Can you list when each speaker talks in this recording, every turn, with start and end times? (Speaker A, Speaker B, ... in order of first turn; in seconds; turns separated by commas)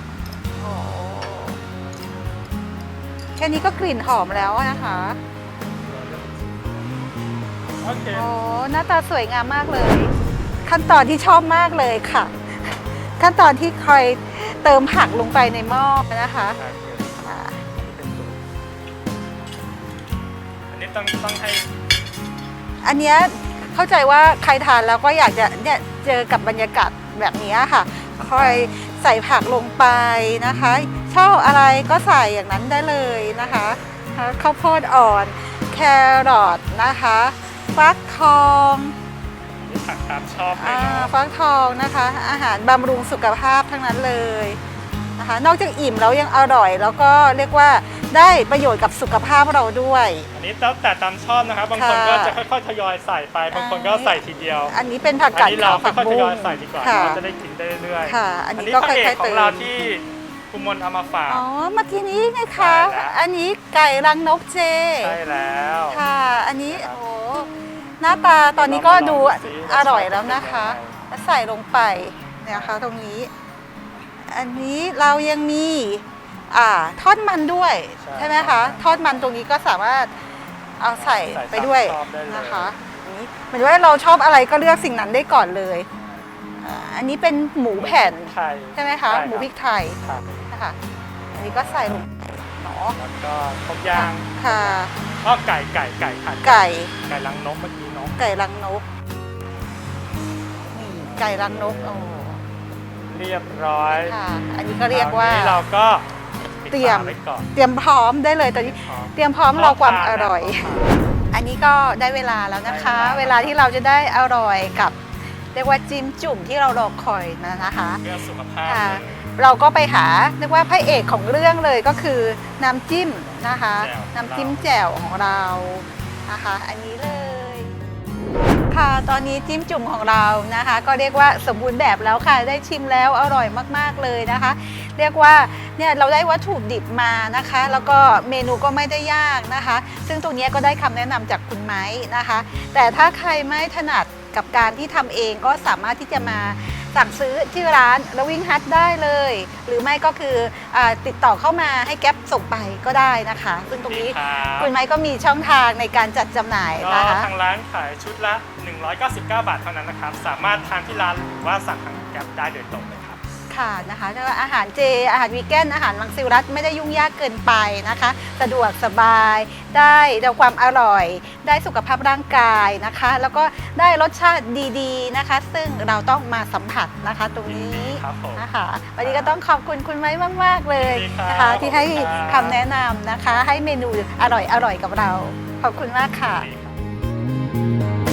Speaker A: 0.6-1.6, Speaker A: 3.4-5.2, Speaker B: 4.0-6.9, Speaker B: 7.8-8.3, Speaker A: 8.1-16.6, Speaker B: 16.5-18.4, Speaker A: 17.2-17.6, Speaker B: 20.7-21.7, Speaker A: 22.8-38.9, Speaker B: 28.3-28.7, Speaker B: 33.4-33.9, Speaker B: 39.6-41.1, Speaker A: 40.6-44.6, Speaker A: 45.2-50.3, Speaker B: 50.3-54.8, Speaker A: 51.7-52.4, Speaker A: 53.5-54.2, Speaker A: 54.7-57.2, Speaker B: 55.3-61.5, Speaker A: 58.0-59.8, Speaker A: 61.3-65.2, Speaker B: 62.5-63.2, Speaker B: 65.0-66.0, Speaker A: 65.9-73.3, Speaker B: 66.7-67.0, Speaker B: 68.6-71.0, Speaker B: 72.5-72.8, Speaker A: 74.3-80.1, Speaker B: 78.0-79.3, Speaker A: 80.8-85.9, Speaker B: 80.9-82.7, Speaker B: 85.9-86.3, Speaker A: 86.6-90.0, Speaker B: 87.8-90.5, Speaker A: 90.5-90.8, Speaker B: 91.3-92.0, Speaker A: 91.3-93.0, Speaker B: 92.9-98.2, Speaker A: 93.9-95.0, Speaker A: 96.4-96.9, Speaker A: 98.2-98.8, Speaker A: 100.7-102.4, Speaker B: 101.0-102.1, Speaker B: 103.1-104.2, Speaker A: 104.0-105.7, Speaker B: 104.9-106.1, Speaker B: 106.6-107.5, Speaker A: 106.7-110.7, Speaker B: 108.6-111.2, Speaker A: 111.3-115.0, Speaker B: 112.6-113.6, Speaker A: 115.5-118.0, Speaker B: 117.9-119.2, Speaker A: 118.6-127.7, Speaker B: 123.6-124.9, Speaker A: 128.7-157.3, Speaker B: 153.7-154.7, Speaker B: 156.8-163.2, Speaker A: 163.5-186.5, Speaker B: 177.4-179.4, Speaker B: 180.8-182.6, Speaker B: 186.2-186.8